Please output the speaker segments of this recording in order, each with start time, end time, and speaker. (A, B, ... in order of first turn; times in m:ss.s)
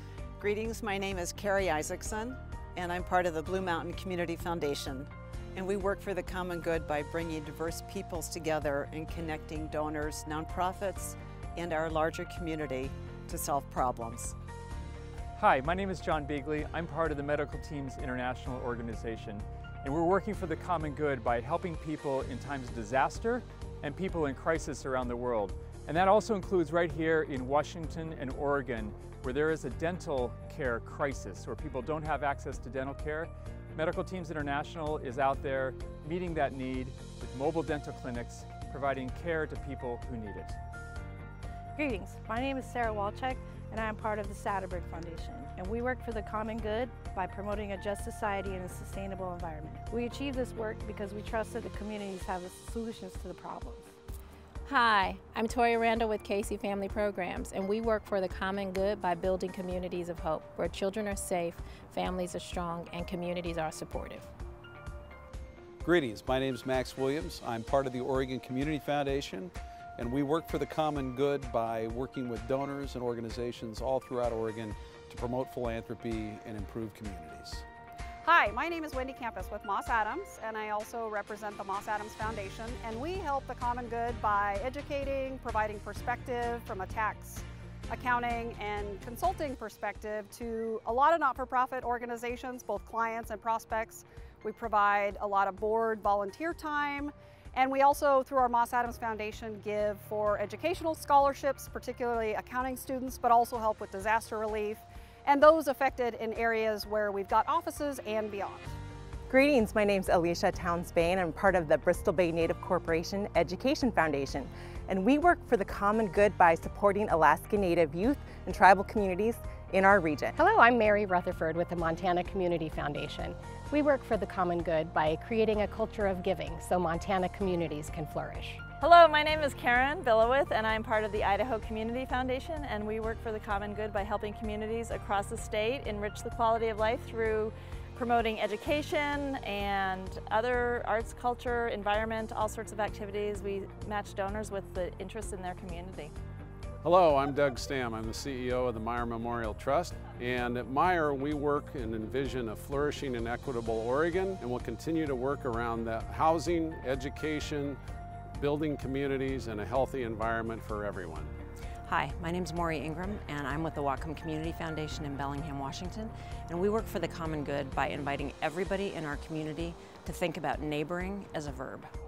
0:00.4-0:14.4 A
0:15.4-0:40.6 B
0:41.8-0:53.9 C
0:54.7-1:04.3 D
1:05.8-1:17.6 E
1:18.2-1:48.7 F
1:49.3-2:00.4 G
2:00.4-2:08.6 H
2:08.8-2:26.1 I
2:26.8-2:37.8 J
2:38.4-2:41.3 J
2:41.9-2:51.9 K